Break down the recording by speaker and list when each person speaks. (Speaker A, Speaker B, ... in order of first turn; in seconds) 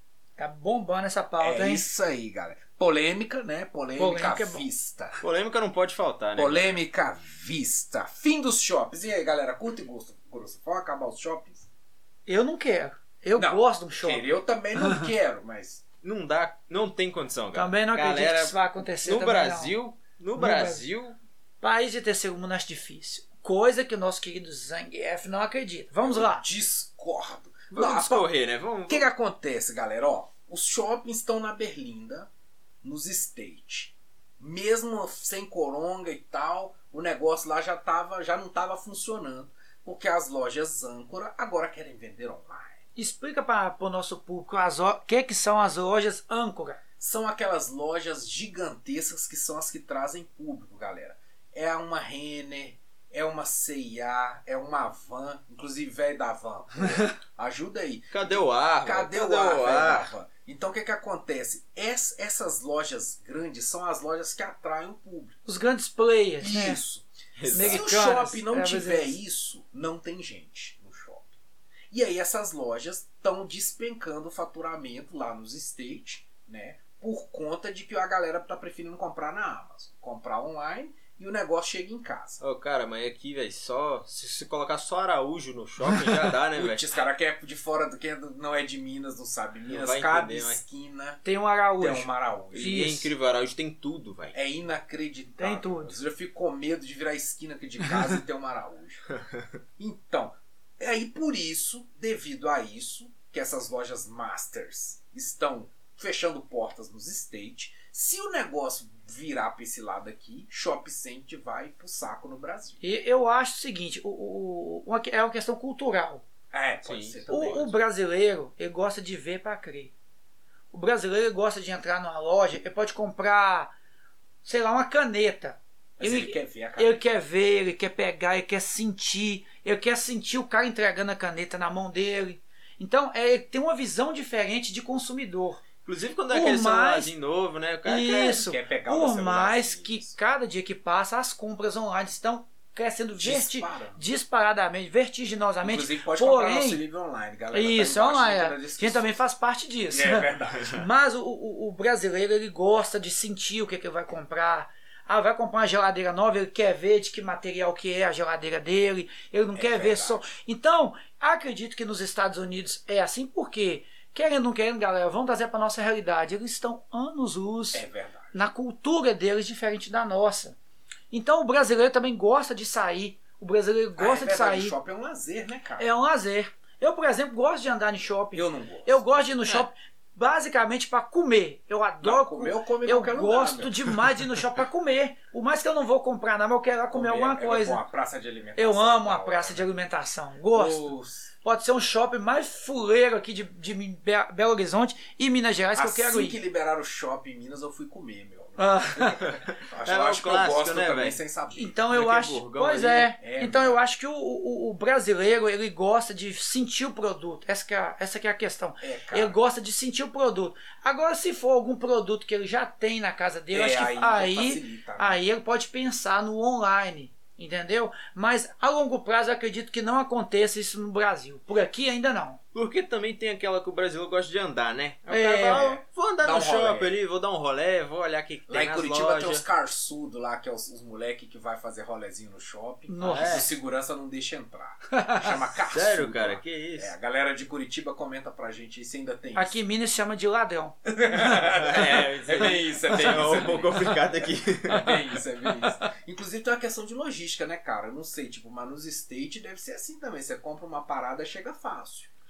Speaker A: 0.4-1.9, 4.0-4.7, 12.3-14.3, 17.5-19.7, 20.4-20.9, 21.6-26.4, 27.8-28.2, 43.0-46.8, 65.5-66.8, 67.5-69.2, 91.2-93.1, 95.4-95.9, 112.8-116.2, 117.3-119.9, 120.7-123.7, 124.4-135.6, 136.3-137.1, 137.8-146.8, 147.5-167.8, 168.3-170.6, 171.1-174.8, 175.8-187.8, 188.6-190.9, 191.4-196.4, 198.6-199.2, 201.6-222.4, 225.1-225.7, 232.9-233.5, 239.3-240.8
Speaker B: 1.4-5.2, 6.4-11.7, 13.4-15.8, 26.0-28.3, 28.9-32.3, 32.8-42.8, 47.0-65.4, 66.4-71.3, 71.9-82.4, 86.5-91.2, 91.8-92.7, 94.3-99.0, 99.8-112.8, 116.5-117.8, 126.0-127.0, 138.1-140.2, 143.1-144.1, 145.6-149.2, 149.9-150.8, 159.6-160.3, 167.7-168.4, 174.0-175.8, 178.3-179.7, 182.0-184.2, 186.9-189.7, 190.5-191.3, 195.8-202.1, 202.6-203.8, 208.8-209.3, 213.5-215.2, 225.5-227.0, 228.5-239.6, 240.9-244.0, 244.6-252.1
Speaker C: 5.2-6.8, 16.0-21.2, 27.7-29.1, 58.1-60.1, 67.4-67.8, 82.4-86.9, 89.7-90.6, 92.5-94.3, 116.8-117.7, 135.8-138.4, 199.3-201.2, 201.9-203.0, 222.5-229.4, 233.0-233.5, 235.7-236.9, 241.3-245.2